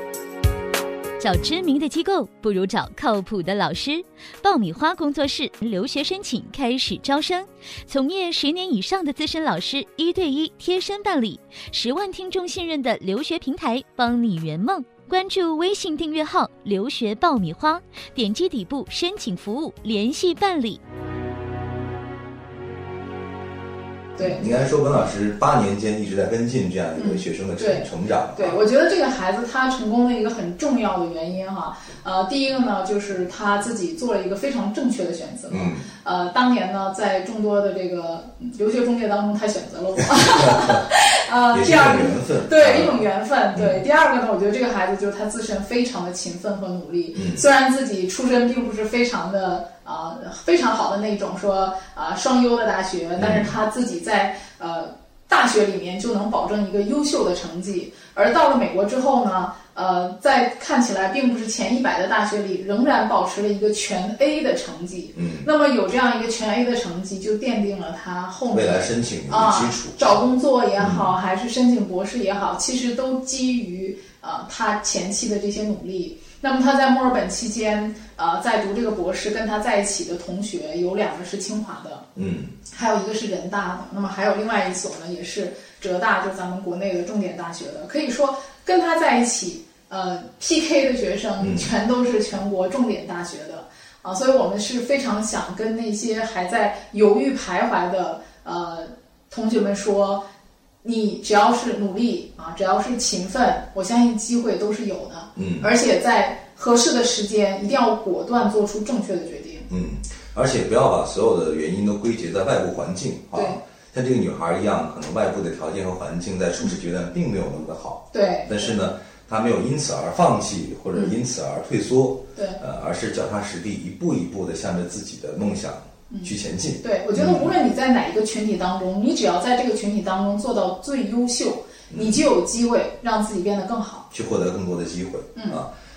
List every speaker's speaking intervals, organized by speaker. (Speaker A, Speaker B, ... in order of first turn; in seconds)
Speaker A: 1.2-20.8
Speaker B: 24.2-24.7, 27.0-82.1, 82.7-100.2, 100.8-109.7, 113.3-113.6, 118.1-118.7, 122.3-122.6, 126.1-134.1, 135.4-135.6
Speaker C: 24.2-28.6, 35.5-35.9, 41.5-43.0, 43.5-43.8, 47.1-47.4, 53.2-53.5, 65.2-65.5, 68.5-70.0, 70.8-71.2, 82.2-82.5, 91.4-91.7, 105.4-105.7, 109.7-127.5, 131.9-132.2, 134.1-135.7